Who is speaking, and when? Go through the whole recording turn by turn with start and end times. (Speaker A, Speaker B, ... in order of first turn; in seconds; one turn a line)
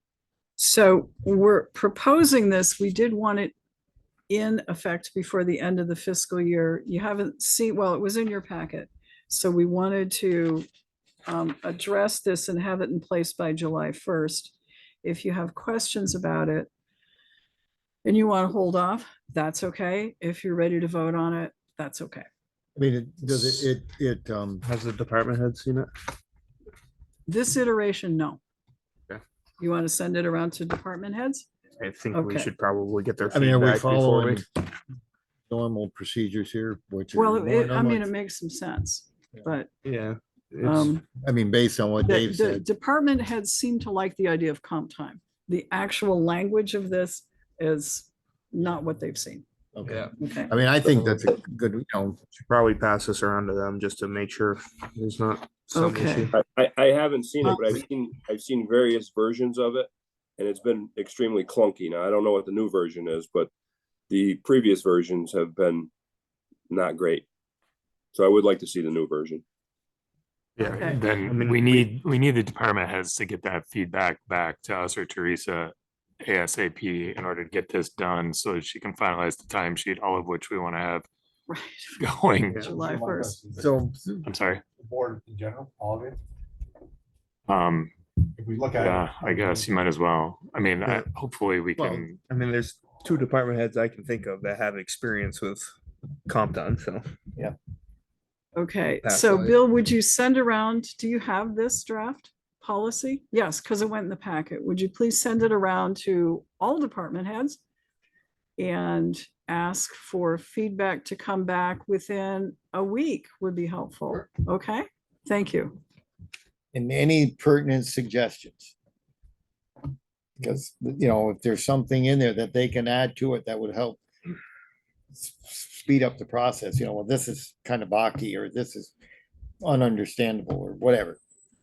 Speaker A: 0.6-3.5
Speaker A: 4.3-10.7
Speaker A: 11.3-16.7
Speaker A: 18.0-22.3
Speaker B: 22.8-24.6
Speaker C: 24.6-25.9
Speaker A: 27.3-28.4
Speaker A: 29.6-31.5
Speaker C: 31.8-34.4
Speaker A: 32.1-32.5
Speaker B: 33.3-34.5
Speaker B: 35.5-38.1
Speaker A: 37.1-39.7
Speaker C: 39.9-40.9
Speaker A: 40.6-41.0
Speaker B: 41.2-42.6
Speaker A: 42.0-49.4
Speaker B: 49.8-52.2
Speaker A: 50.2-50.5
Speaker C: 52.5-56.3
Speaker A: 55.7-56.3
Speaker D: 56.5-63.5
Speaker D: 64.1-65.9
Speaker D: 66.7-67.2
Speaker D: 68.1-69.4
Speaker C: 70.6-71.9
Speaker E: 70.6-81.1
Speaker A: 70.6-71.0
Speaker A: 81.5-82.0
Speaker E: 82.0-82.5
Speaker F: 82.5-83.8
Speaker A: 82.5-83.4
Speaker B: 83.6-84.3
Speaker E: 84.3-84.6
Speaker F: 84.8-86.2
Speaker E: 87.5-87.9
Speaker F: 88.4-89.9
Speaker E: 88.8-92.2
Speaker B: 91.8-92.1
Speaker C: 92.3-95.7
Speaker C: 96.3-97.1
Speaker A: 98.5-107.6
Speaker C: 99.0-99.5
Speaker A: 108.6-115.8
Speaker B: 116.7-118.7
Speaker B: 120.4-124.0
Speaker B: 125.1-128.9
Speaker B: 129.6-131.2